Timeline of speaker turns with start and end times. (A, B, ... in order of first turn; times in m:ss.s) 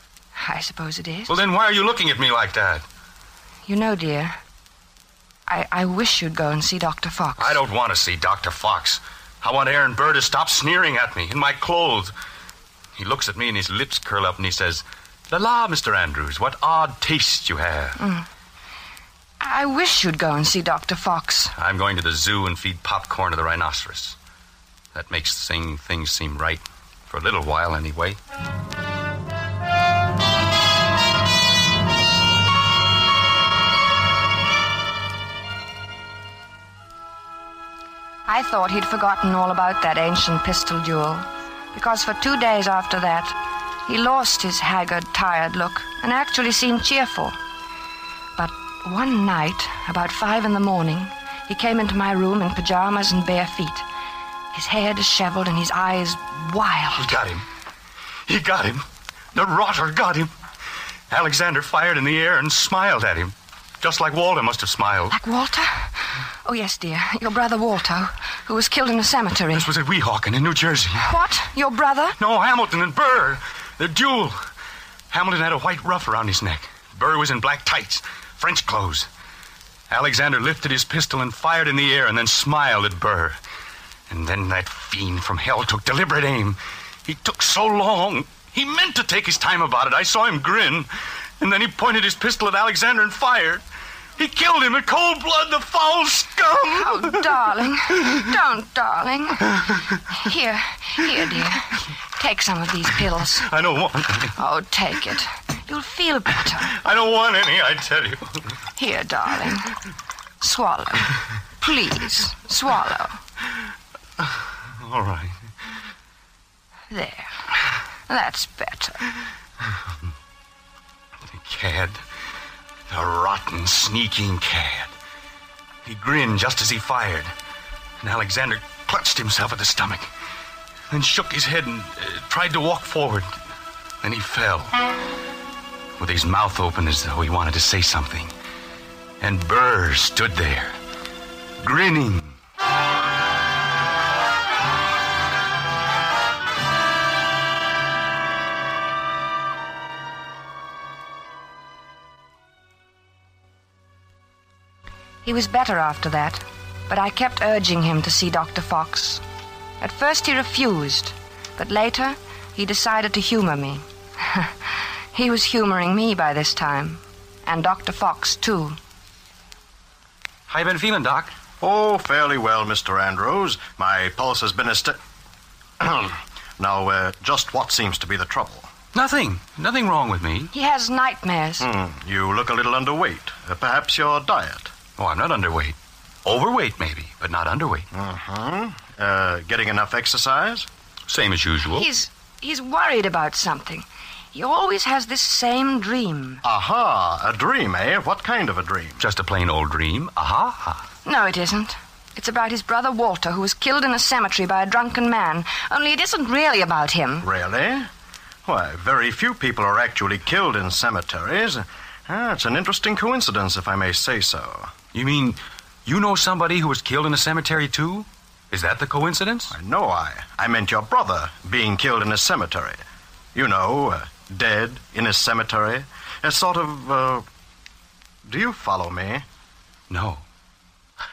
0:00.4-0:01.3 A
0:01.3-0:02.8 B
0:03.7-0:04.4 A
0:05.5-0:07.6 A
0:07.4-0:12.1 B
0:13.0-0:18.0 B
0:18.0-0:18.3 A
0:19.4-0:21.5 A
0:21.6-0:24.2 B
0:24.9-0:28.2 B
0:38.2-0:47.4 A
0:48.4-0:53.8 A
0:54.5-0:57.2 A
0:57.0-0:57.4 B
0:58.3-1:00.3 B
1:01.1-1:05.2 B
1:05.1-1:09.7 A
1:09.5-1:11.1 B
1:11.0-1:12.2 A
1:12.2-1:14.4 B
1:15.1-1:19.1 B
1:19.9-1:23.4 B
1:24.1-1:30.9 B
1:31.4-1:33.6 B
1:34.2-1:37.3 B
1:36.8-1:39.5 A
1:40.1-1:43.5 A
1:43.4-1:44.4 B
1:44.4-1:46.7 A
1:46.7-1:48.6 B
1:48.8-1:49.8 A
1:50.4-1:53.2 A
1:54.8-1:55.4 B
1:56.9-1:57.4 A
1:58.1-1:59.0 A
2:01.2-2:02.0 B
2:02.9-2:04.9 B
2:05.8-2:07.3 B
2:08.0-2:10.1 B
2:10.9-2:13.3 B
2:14.0-2:14.8 B
2:16.0-2:18.3 B
2:19.2-2:20.8 B
2:21.6-2:22.4 B
2:35.2-2:39.2 A
2:39.8-2:48.8 A
2:50.5-2:51.3 B
2:51.6-2:55.0 C
2:55.8-2:58.7 C
2:58.9-3:00.5 B
3:00.5-3:01.6 A
3:01.6-3:04.7 C
3:05.0-3:07.9 B
3:07.9-3:10.7 C
3:11.1-3:11.9 B
3:11.7-3:16.4 A
3:16.4-3:19.0 C
3:19.0-3:20.8 B
3:21.0-3:27.2 A
3:27.2-3:27.9 C
3:28.4-3:34.7 C
3:34.9-3:39.5 B
3:39.5-3:42.8 C
3:43.3-3:47.2 C
3:48.3-3:49.2 C
3:49.9-3:50.2 B